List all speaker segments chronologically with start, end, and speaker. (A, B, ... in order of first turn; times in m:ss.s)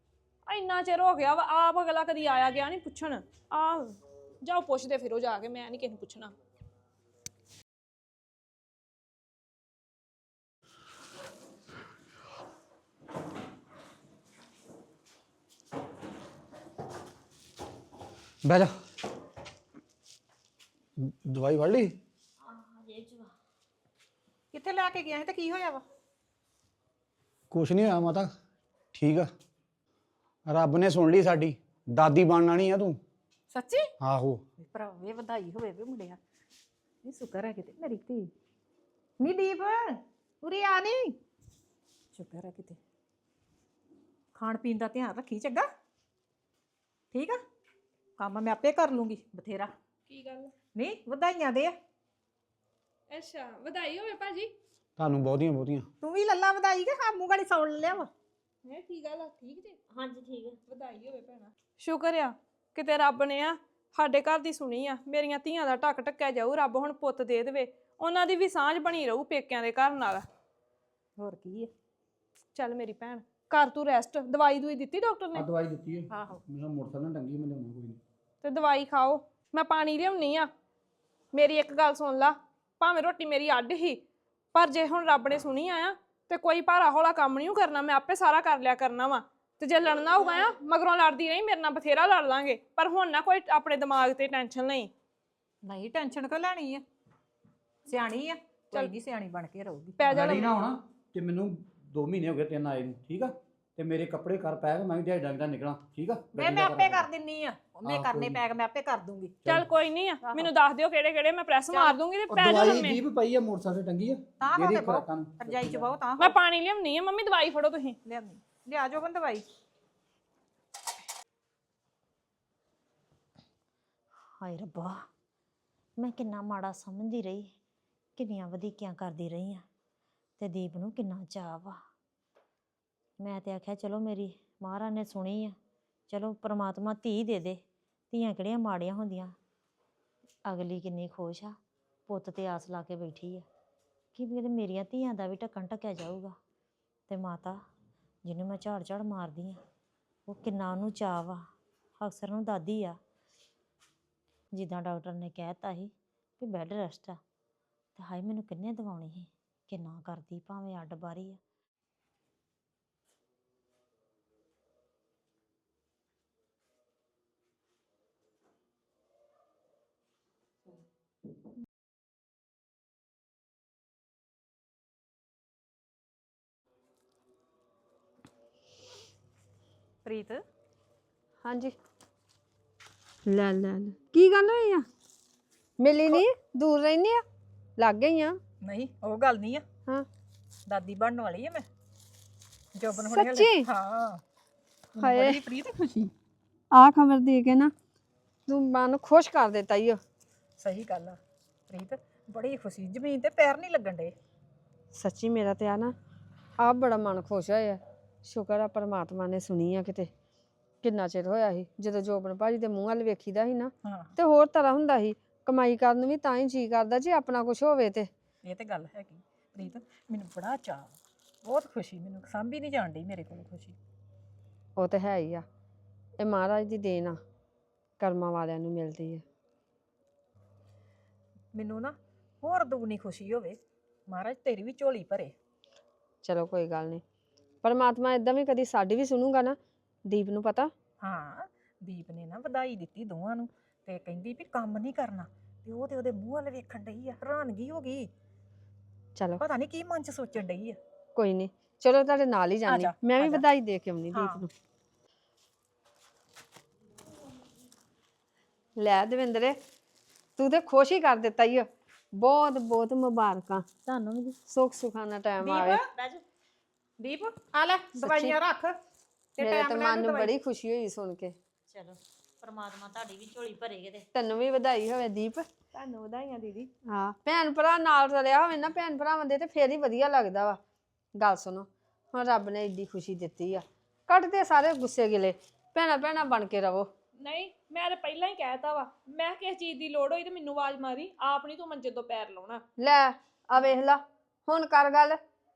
0:00.4-0:06.3 A
0:18.4-0:18.7 B
0:21.0-0:21.9 B
0:22.4-0:23.3 C
0:24.5-0:25.8 D
0:27.5-0:28.3 B
0:28.9-0:29.3 B
0:30.5-0:33.0 B
0:33.5-0:33.9 D
0:34.0-0:34.4 B
0:34.6-0:36.2 D
0:37.0-0:38.3 D
0:39.2-0:41.2 D
0:42.1-0:42.8 D
0:44.4-0:45.7 D
0:47.1-0:47.4 D
0:48.2-0:49.7 D
0:50.1-0:50.5 A
0:50.7-0:51.7 D
0:53.1-0:54.5 A
0:55.0-0:55.9 B
0:56.0-0:58.1 D
0:58.6-0:59.8 A
0:59.9-1:00.6 C
1:00.7-1:10.2 A
1:11.2-1:11.7 D
1:12.5-1:15.4 A
1:15.3-1:18.0 B
1:16.1-1:16.4 D
1:18.4-1:20.5 A
1:21.3-1:24.0 A
1:24.5-1:34.9 A
1:35.6-1:36.8 D
1:37.8-1:40.0 D
1:40.0-1:40.5 A
1:40.0-1:47.1 B
1:46.3-1:49.4 D
1:47.8-1:48.4 B
1:49.4-1:53.0 A
1:50.2-1:50.5 D
1:51.7-1:52.0 D
1:52.3-1:55.9 B
1:54.4-1:56.3 D
1:56.2-1:58.0 A
1:58.0-1:59.5 D
2:04.4-2:05.0 C
2:06.0-2:07.5 C
2:08.2-2:09.6 C
2:10.4-2:11.8 C
2:13.2-2:15.6 C
2:16.1-2:19.3 C
2:20.4-2:23.4 C
2:24.1-2:26.3 C
2:27.1-2:27.6 C
2:28.2-2:29.6 C
2:30.3-2:31.4 C
2:32.0-2:33.0 C
2:34.5-2:37.2 C
2:38.0-2:41.4 C
3:00.0-3:00.4 D
3:01.4-3:01.7 E
3:03.2-3:04.8 E
3:05.8-3:07.2 E
3:07.8-3:08.4 E
3:08.6-3:09.6 D
3:10.7-3:11.6 D
3:12.7-3:14.2 D
3:12.9-3:13.7 E
3:15.0-3:16.1 D
3:15.0-3:15.4 E
3:16.7-3:17.7 E
3:18.5-3:20.0 E
3:20.6-3:24.1 D
3:24.9-3:25.9 E
3:26.6-3:30.1 E
3:30.8-3:38.1 E
3:33.8-3:34.1 D
3:38.4-3:40.9 D
3:41.4-3:43.8 D
3:44.8-3:45.4 E
3:46.2-3:47.2 E
3:48.0-3:49.2 E
3:51.5-3:55.3 D
3:56.2-3:57.0 E
3:57.6-4:00.7 E
4:01.0-4:08.1 D
4:09.2-4:09.4 E
4:09.4-4:10.8 D
4:11.2-4:14.5 E
4:12.6-4:13.4 D
4:14.1-4:14.4 D
4:18.8-4:19.6 E
4:20.4-4:23.6 E
4:23.8-4:24.4 C
4:24.5-4:25.8 E
4:25.4-4:25.8 D
4:25.9-4:26.2 C
4:27.0-4:28.8 D
4:28.0-4:28.4 E
4:29.4-4:30.3 D
4:29.4-4:31.3 E
4:31.7-4:34.0 C
4:34.1-4:35.4 E
4:35.7-4:36.7 A
4:36.9-4:40.6 E
4:41.2-4:46.9 E
4:47.2-4:52.6 A
4:52.8-4:55.2 E